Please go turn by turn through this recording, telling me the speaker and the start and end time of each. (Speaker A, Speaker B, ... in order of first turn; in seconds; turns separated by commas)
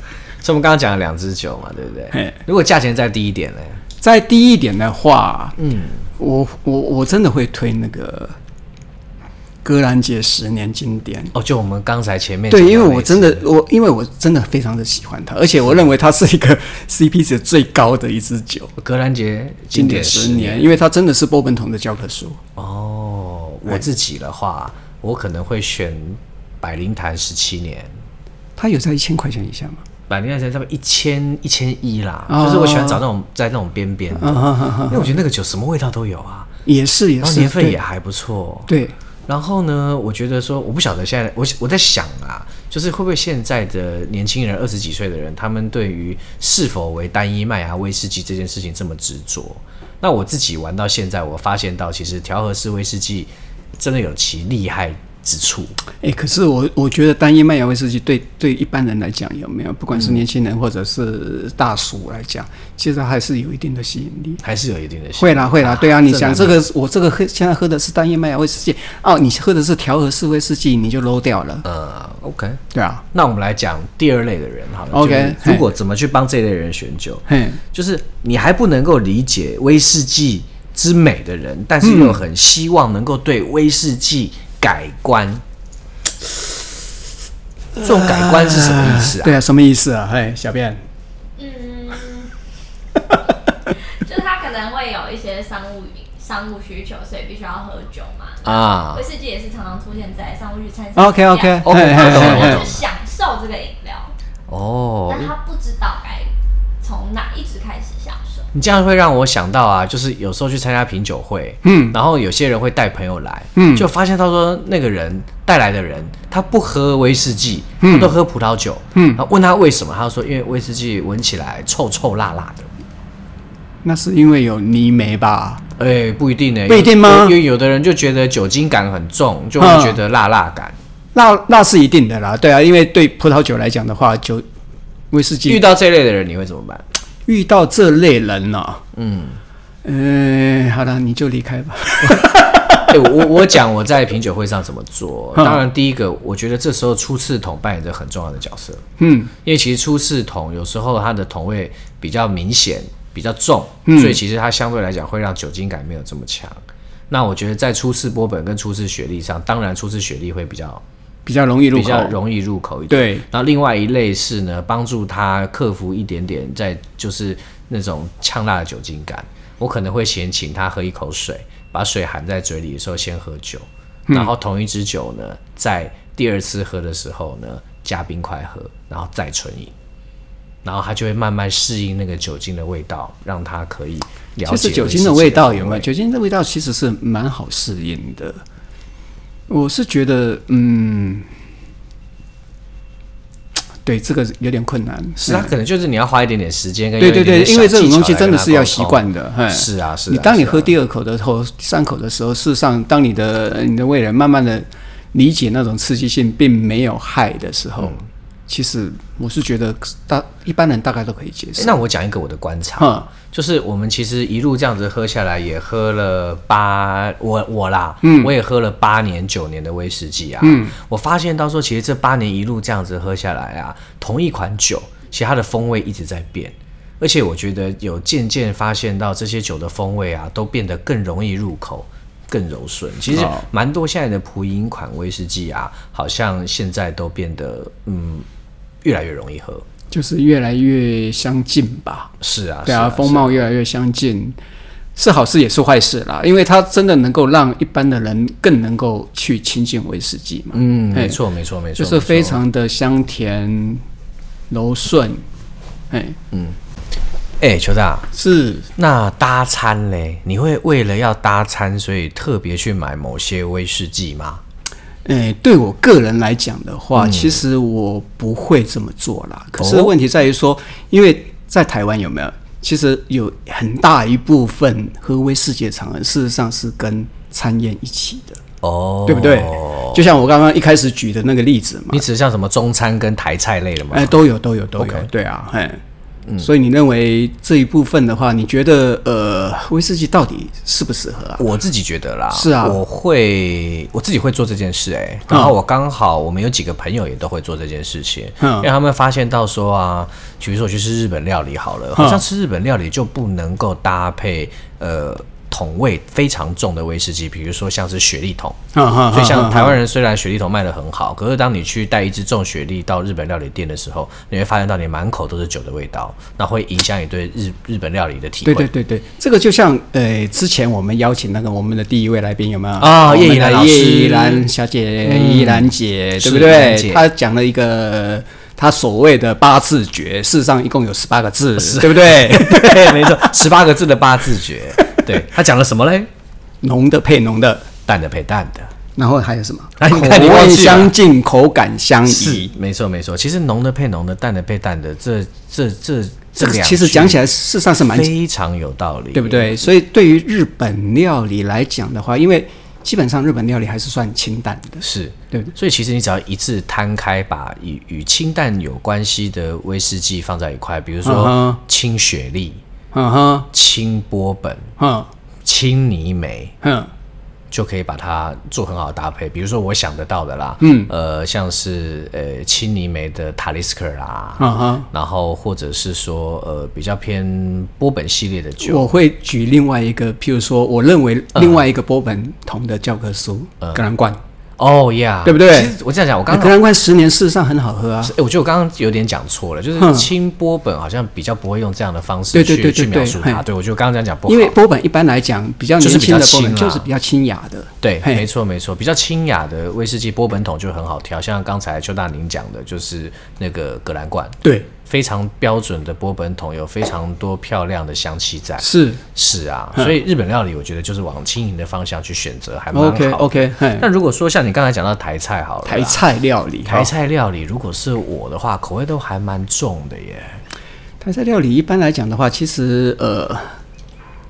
Speaker A: 0.4-3.8, Speaker B: 2.1-2.4, Speaker B: 4.0-5.6, Speaker A: 5.6-6.0, Speaker B: 6.2-8.3, Speaker B: 9.6-11.3, Speaker A: 11.3-13.5, Speaker B: 12.5-18.7, Speaker A: 18.8-20.7, Speaker B: 19.7-22.4, Speaker A: 22.6-27.9, Speaker B: 28.6-29.8, Speaker A: 30.1-36.5, Speaker B: 32.3-33.0, Speaker B: 34.1-35.1, Speaker B: 36.6-37.8, Speaker A: 37.2-38.7, Speaker B: 38.7-38.9, Speaker A: 39.3-55.7, Speaker B: 56.0-64.4, Speaker A: 59.9-60.2, Speaker A: 64.4-66.6, Speaker B: 65.2-71.7, Speaker A: 71.6-72.6, Speaker B: 72.7-73.0, Speaker A: 73.1-85.4, Speaker B: 74.9-75.7, Speaker B: 77.3-77.6, Speaker B: 81.8-82.2, Speaker A: 87.8-89.4, Speaker B: 87.8-90.8, Speaker C: 91.4-92.3, Speaker C: 93.7-104.1, Speaker A: 98.4-99.0, Speaker B: 101.0-102.6, Speaker A: 101.6-102.8, Speaker A: 104.5-105.3, Speaker C: 105.1-108.5, Speaker A: 108.5-122.7, Speaker B: 111.6-112.0, Speaker B: 113.5-113.9, Speaker B: 117.8-118.2, Speaker B: 118.9-119.2, Speaker B: 123.8-125.6, Speaker A: 125.8-130.8, Speaker B: 126.7-127.4, Speaker B: 129.6-130.0, Speaker B: 131.1-134.4, Speaker B: 135.1-135.6, Speaker A: 135.4-136.8, Speaker B: 137.3-138.8, Speaker A: 138.9-139.4, Speaker B: 139.8-142.9, Speaker A: 142.9-148.8, Speaker B: 145.3-145.6, Speaker B: 149.0-149.3, Speaker A: 149.4-160.8, Speaker B: 153.8-154.2, Speaker B: 161.2-162.2, Speaker A: 161.7-179.7, Speaker B: 162.9-163.2, Speaker A: 180.6-185.9, Speaker B: 184.4-188.4, Speaker B: 189.5-191.3, Speaker B: 193.8-195.5, Speaker A: 195.2-200.7, Speaker B: 197.0-211.8, Speaker A: 211.6-238.3, Speaker B: 212.8-213.1, Speaker B: 218.0-218.3, Speaker B: 220.4-220.7, Speaker B: 233.1-233.4, Speaker A: 238.8-239.7, Speaker B: 239.9-242.1, Speaker A: 242.2-243.4, Speaker B: 242.7-244.4, Speaker B: 244.9-251.2, Speaker A: 250.5-252.4, Speaker B: 251.8-253.8, Speaker B: 254.5-255.2, Speaker B: 255.9-256.2, Speaker A: 256.3-256.6, Speaker A: 257.4-258.1, Speaker B: 258.1-258.7, Speaker A: 258.8-264.4, Speaker B: 265.0-278.4, Speaker A: 266.9-267.4, Speaker A: 269.6-269.9, Speaker A: 278.6-280.1, Speaker B: 279.1-282.0, Speaker A: 281.9-284.1, Speaker B: 283.9-285.8, Speaker A: 284.8-285.1, Speaker B: 286.4-291.4, Speaker A: 291.4-318.7, Speaker B: 292.3-292.8, Speaker B: 295.3-295.5, Speaker B: 298.4-298.7, Speaker B: 301.9-302.2, Speaker B: 308.7-309.8, Speaker B: 318.4-333.3, Speaker A: 322.8-324.5, Speaker A: 325.0-327.1, Speaker A: 331.6-336.1, Speaker B: 336.6-337.7, Speaker A: 337.9-338.7, Speaker B: 338.9-342.5, Speaker A: 339.8-340.9, Speaker A: 342.1-347.2, Speaker B: 346.4-348.1, Speaker A: 347.8-349.7, Speaker B: 349.1-355.5, Speaker A: 354.8-362.6, Speaker B: 361.0-361.6, Speaker B: 362.9-363.5, Speaker A: 363.5-364.7, Speaker B: 364.8-365.1, Speaker A: 365.4-366.5, Speaker B: 366.6-366.9, Speaker A: 367.5-378.9, Speaker B: 370.6-370.9, Speaker B: 374.4-374.9, Speaker B: 378.6-384.2, Speaker A: 381.4-381.6, Speaker A: 384.6-386.6, Speaker B: 385.2-385.7, Speaker B: 386.3-388.1, Speaker A: 388.0-394.5, Speaker B: 389.8-390.1, Speaker B: 392.3-393.4, Speaker B: 394.3-398.2, Speaker A: 395.8-396.9, Speaker A: 397.8-416.0, Speaker B: 408.6-409.0, Speaker B: 412.7-413.9, Speaker B: 415.6-416.9, Speaker A: 416.6-420.4, Speaker B: 421.0-423.6